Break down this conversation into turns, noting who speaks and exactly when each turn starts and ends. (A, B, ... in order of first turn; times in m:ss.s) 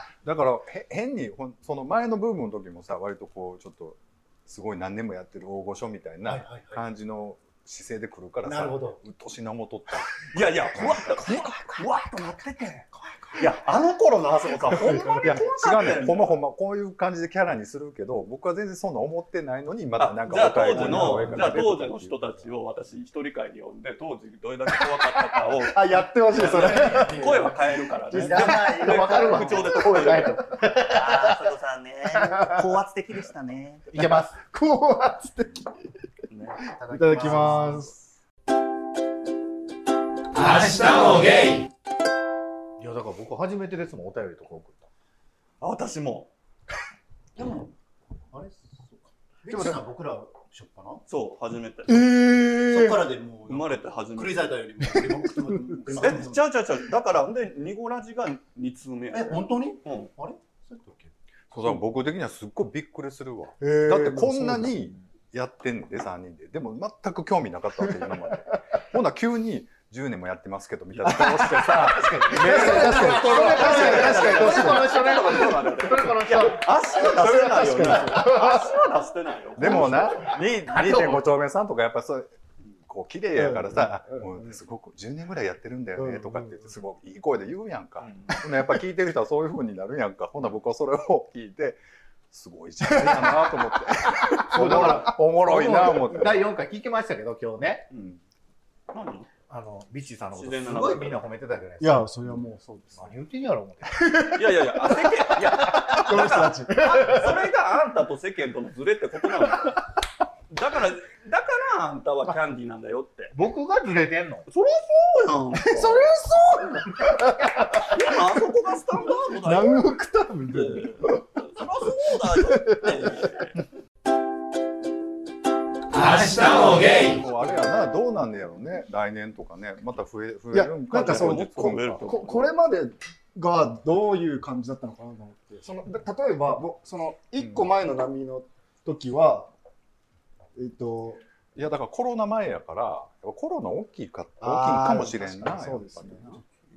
0:00.2-0:11.0 A
0:06.2-0:06.9 B
0:08.4-0:09.0 B
0:10.3-0:16.4 C
0:15.1-0:22.4 A
0:20.0-0:30.5 C
0:20.8-0:21.2 D
0:24.9-0:29.9 D
0:26.9-0:27.2 E
0:28.1-0:29.4 B
0:28.1-0:31.2 E
0:30.8-0:33.9 F
0:33.9-0:34.4 E
0:34.3-0:35.8 D
0:36.3-0:37.9 C
0:36.8-0:37.9 E
0:36.9-0:37.9 D
0:37.1-0:37.6 B
0:42.8-0:44.9 E
0:45.6-0:46.3 C
0:47.4-0:47.7 B
0:48.3-0:51.0 B
0:51.1-0:52.1 C
0:51.9-0:53.1 D
0:52.6-0:56.6 B
0:53.5-0:54.7 C
0:54.9-0:56.0 D
0:55.9-1:00.1 C
0:59.1-1:01.1 B
1:01.5-1:14.3 A
1:03.6-1:05.0 D
1:08.0-1:08.3 D
1:11.0-1:11.2 C
1:11.0-1:15.4 D
1:12.0-1:16.6 E
1:12.3-1:20.4 C
1:16.8-1:18.7 D
1:19.6-1:22.3 A
1:19.6-1:20.3 D
1:20.7-1:21.3 E
1:22.9-1:36.5 A
1:23.3-1:24.6 D
1:26.0-1:26.7 D
1:28.0-1:28.3 C
1:32.8-1:35.1 D
1:34.5-1:37.9 E
1:37.9-1:38.2 A
1:38.9-1:39.3 C
1:39.5-1:42.1 E
1:40.3-1:41.2 C
1:41.8-1:43.1 D
1:43.0-1:44.1 E
1:43.9-1:47.3 D
1:44.3-1:49.8 C
1:50.5-1:53.3 C
1:53.3-1:54.4 E
1:54.5-1:56.0 C
1:55.6-1:58.0 D
1:55.8-1:56.4 E
1:57.8-1:59.9 C
1:59.2-2:03.3 D
2:00.5-2:03.6 C
2:06.2-2:12.1 A
2:10.5-2:19.5 D
2:11.0-2:12.5 C
2:17.4-2:17.7 A
2:20.6-2:21.2 D
2:21.5-2:26.4 A
2:24.4-2:26.4 D